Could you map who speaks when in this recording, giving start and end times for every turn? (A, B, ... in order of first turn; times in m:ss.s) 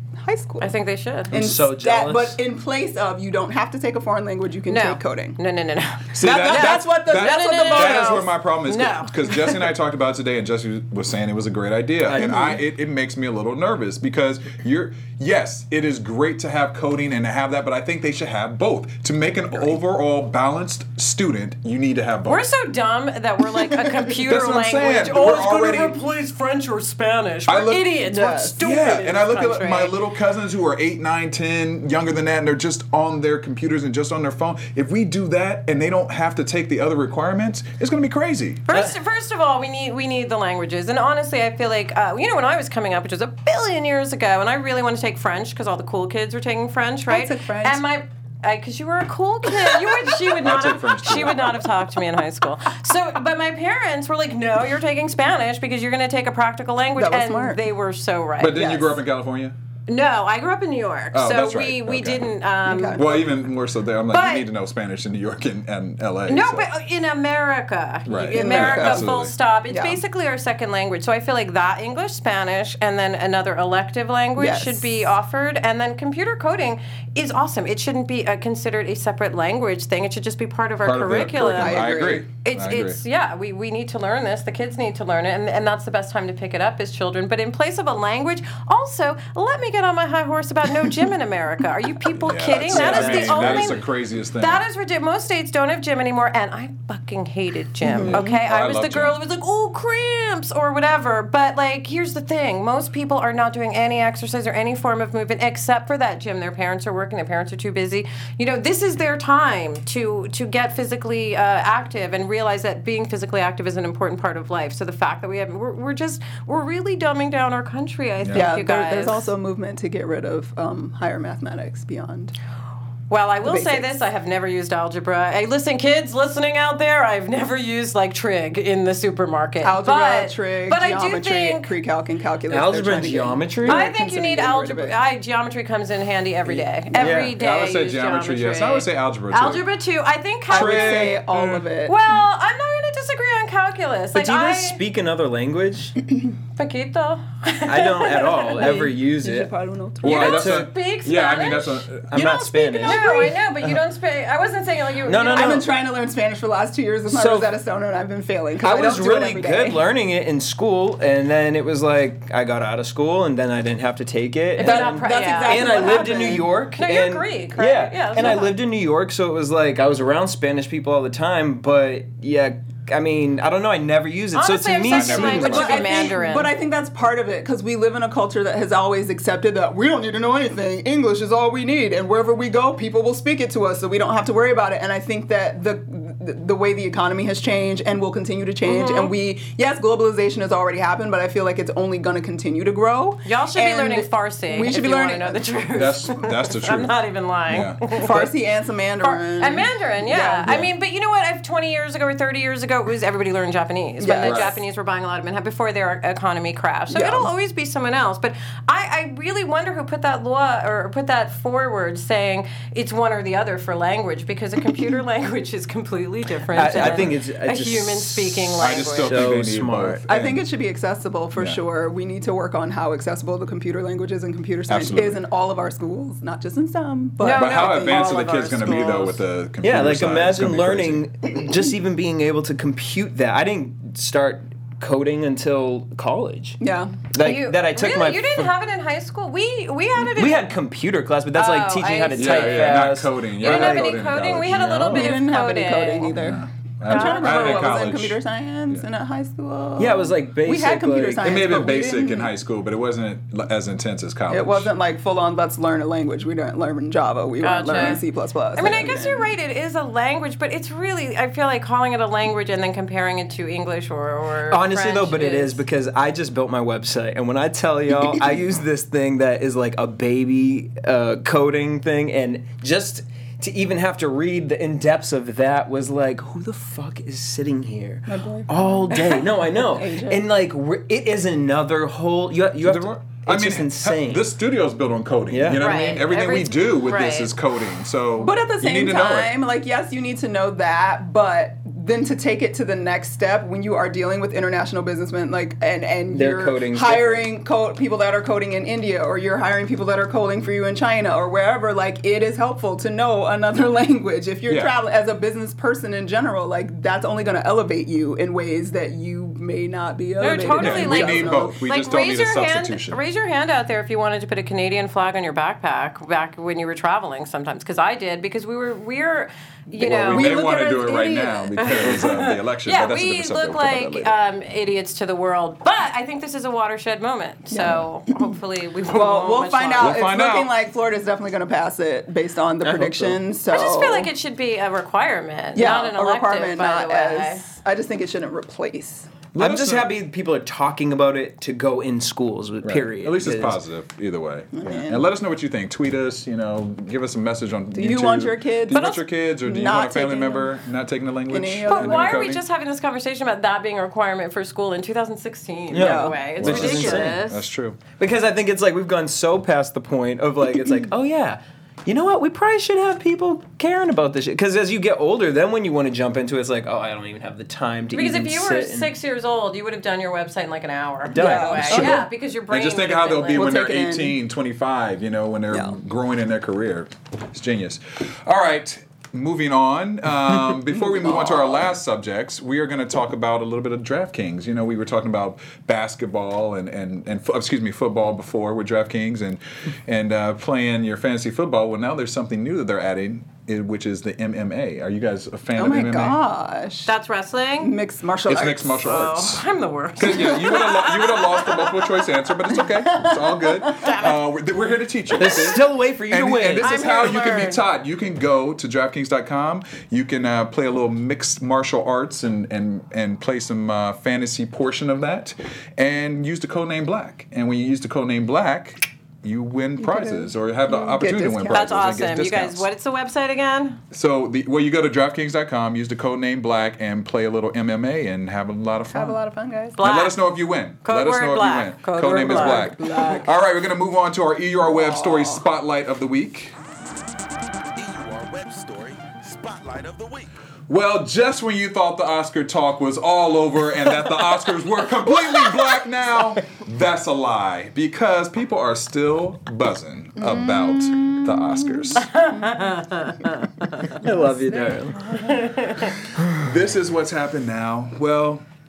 0:00.2-0:00.7 A
0:00.6-0:01.3 B
0:01.3-0:02.4 C
0:01.3-0:05.4 A
0:04.7-0:09.6 B
0:06.1-0:22.5 D
0:06.2-0:08.3 A
0:12.0-0:12.6 C
0:22.2-0:30.0 B
0:24.1-0:26.0 D
0:27.5-0:27.9 D
0:28.0-0:28.6 A
0:28.6-0:38.7 D
0:38.7-0:58.8 B
0:47.1-0:47.8 A
0:50.4-0:51.6 D
0:57.0-0:57.6 A
0:58.4-0:59.6 D
0:58.6-0:58.9 A
0:59.9-1:03.0 B
1:01.1-1:02.3 D
1:02.6-1:03.1 A
1:02.9-1:06.7 D
1:04.1-1:04.5 B
1:06.3-1:59.3 B
1:08.0-1:09.3 D
1:08.3-1:09.1 A
1:09.7-1:10.0 A
1:14.4-1:15.1 A
1:20.8-1:23.0 D
1:21.6-1:22.2 A
1:32.1-1:34.6 D
1:32.7-1:33.8 C
1:37.8-1:38.3 A
1:38.0-1:39.2 D
1:58.2-1:58.5 D
1:58.3-2:02.3 A
2:03.1-2:11.7 B
2:03.4-2:03.9 A
2:09.6-2:15.0 A
2:12.5-2:13.9 C
2:13.6-2:24.8 B
2:16.5-2:17.4 C
2:16.9-2:17.2 A
2:17.2-2:19.6 D
2:20.5-2:22.0 A
2:20.5-2:21.1 D
2:24.1-2:26.0 C
2:26.6-2:28.9 B
2:27.7-2:29.5 C
2:28.5-2:30.3 A
2:30.0-2:32.3 D
2:30.0-2:30.7 C
2:30.0-2:31.9 B
2:32.1-2:33.8 C
2:32.4-2:33.4 A
2:32.7-2:35.6 B
2:35.0-2:35.7 C
2:35.3-2:39.8 A
2:37.1-2:37.5 C
2:38.6-2:55.8 C
2:44.6-2:46.2 B
2:44.6-2:46.5 A
2:46.7-2:48.6 B
2:54.3-2:56.5 B
2:54.9-2:56.0 D
2:55.3-3:15.6 A
3:08.6-3:09.1 B
3:13.2-3:18.3 B
3:15.7-3:16.9 D
3:17.5-3:17.8 D
3:17.9-3:20.6 A
3:19.0-3:39.3 B
3:24.0-3:24.6 A
3:24.2-3:24.6 D
3:26.9-3:27.3 A
3:36.5-3:40.0 C
3:36.6-3:37.2 D
3:38.6-3:40.4 D
3:40.1-3:48.1 A
3:41.4-3:41.6 D
3:44.7-3:45.2 D
3:47.2-3:49.2 B
3:47.3-3:51.0 D
3:49.6-3:56.6 C
3:56.6-3:57.0 A
3:57.1-3:58.5 C
3:57.2-4:00.5 B
4:00.2-4:05.2 C
4:01.3-4:02.9 B
4:02.1-4:04.7 D
4:03.4-4:06.1 B
4:04.9-4:12.3 A
4:06.1-4:08.8 D
4:06.9-4:07.9 B
4:09.8-4:11.4 C
4:11.2-4:14.7 D
4:14.3-4:19.3 A
4:17.4-4:18.0 B
4:18.5-4:25.6 B
4:24.5-4:44.3 C
4:38.1-4:40.2 A
4:42.6-4:49.3 D
4:45.3-4:45.6 C
4:45.5-4:47.3 B
4:48.2-5:11.6 A
4:56.1-4:57.3 C
5:04.5-5:04.7 D
5:10.2-5:30.0 B
5:10.6-5:13.0 D
5:19.7-5:20.9 A
5:19.8-5:24.1 D
5:27.5-5:28.3 A
5:28.9-5:34.1 A
5:29.8-5:30.5 D
5:32.6-5:33.2 C
5:33.5-5:37.4 B
5:35.5-5:39.1 A
5:39.3-5:43.6 C
5:39.4-5:40.0 D
5:42.6-5:52.4 D
5:44.5-5:45.0 A
5:47.7-5:50.5 A
5:48.7-5:49.0 B
5:51.3-5:52.2 A
5:51.7-5:57.4 B
5:55.7-5:57.2 C
5:55.7-5:56.2 A
5:56.4-5:57.8 D
5:58.0-6:08.9 C
6:07.9-6:13.5 B
6:11.1-6:12.0 C
6:11.1-6:12.0 A
6:11.7-6:36.2 D
6:13.3-6:14.2 A
6:20.8-6:21.6 A
6:35.6-6:36.9 A
6:36.8-6:37.8 B
6:37.6-6:38.9 A
6:38.2-6:39.4 D
6:38.8-6:41.8 B
6:40.0-7:02.7 D
6:42.9-6:43.9 A
6:43.8-6:44.2 B
6:45.2-6:46.7 C
6:46.6-6:47.6 B
6:59.8-7:01.7 A
7:01.5-7:03.8 B
7:03.9-7:09.2 D
7:08.9-7:09.8 A
7:09.8-7:10.2 B
7:09.8-7:16.6 D
7:10.8-7:12.7 B
7:12.2-7:13.3 A
7:14.6-7:15.4 A
7:17.8-7:20.3 E
7:20.7-7:32.1 D
7:30.2-7:31.7 A
7:32.0-7:34.0 B
7:32.3-7:32.6 A
7:34.0-7:35.0 C
7:35.1-7:36.0 B
7:36.3-7:38.4 D